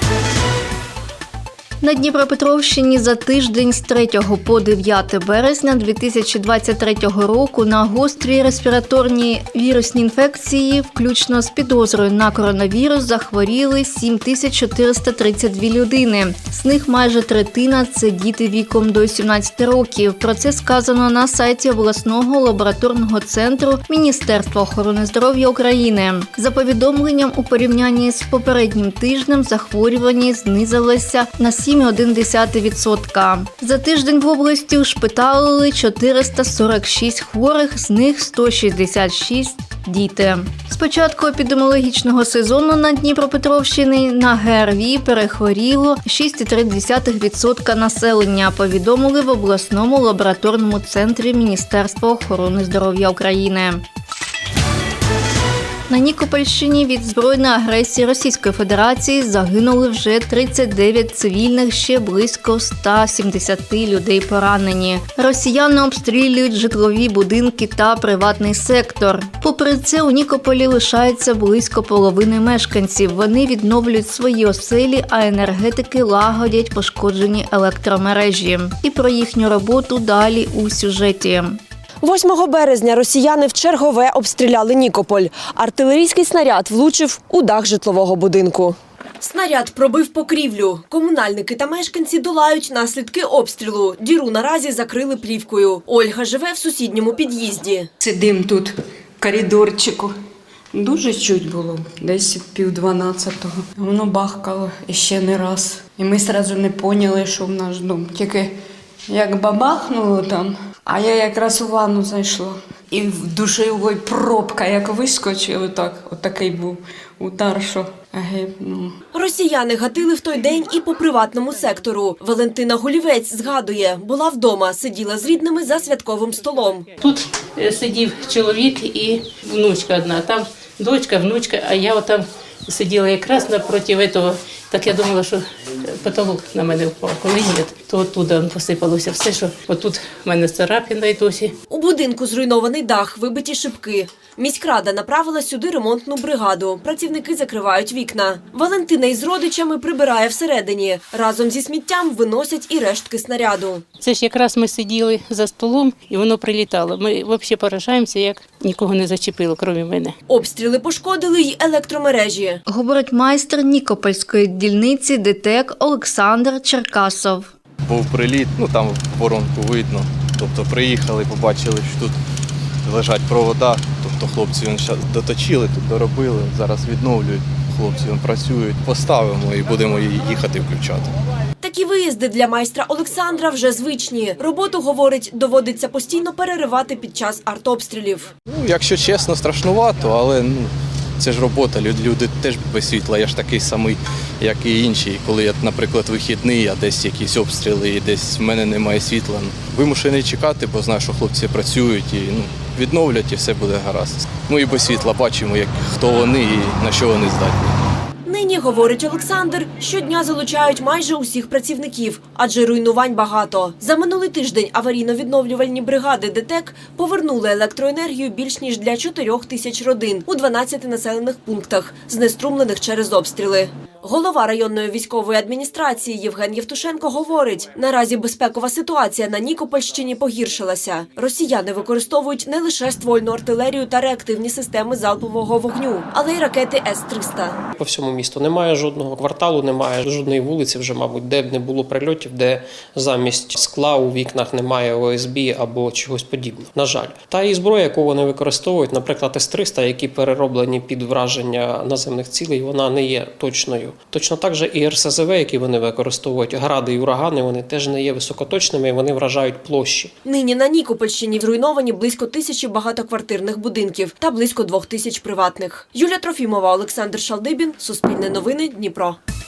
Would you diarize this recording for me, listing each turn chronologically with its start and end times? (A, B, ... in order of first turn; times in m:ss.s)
0:01.8-0:53.8 A
0:55.9-1:21.6 A
1:22.0-1:37.9 B
1:38.0-1:40.1 C
1:40.7-1:48.6 C
1:49.1-1:58.9 C
1:59.1-2:06.9 B
2:07.0-2:21.5 D
2:21.7-2:33.8 B
2:34.0-2:40.1 D
2:40.3-2:42.6 B
2:42.7-2:47.5 A
2:47.9-2:52.2 E
2:52.8-3:01.1 E
3:01.6-3:08.3 B
3:08.5-3:27.8 E
3:28.3-3:57.6 B
3:57.8-4:20.1 F
4:20.2-4:29.2 B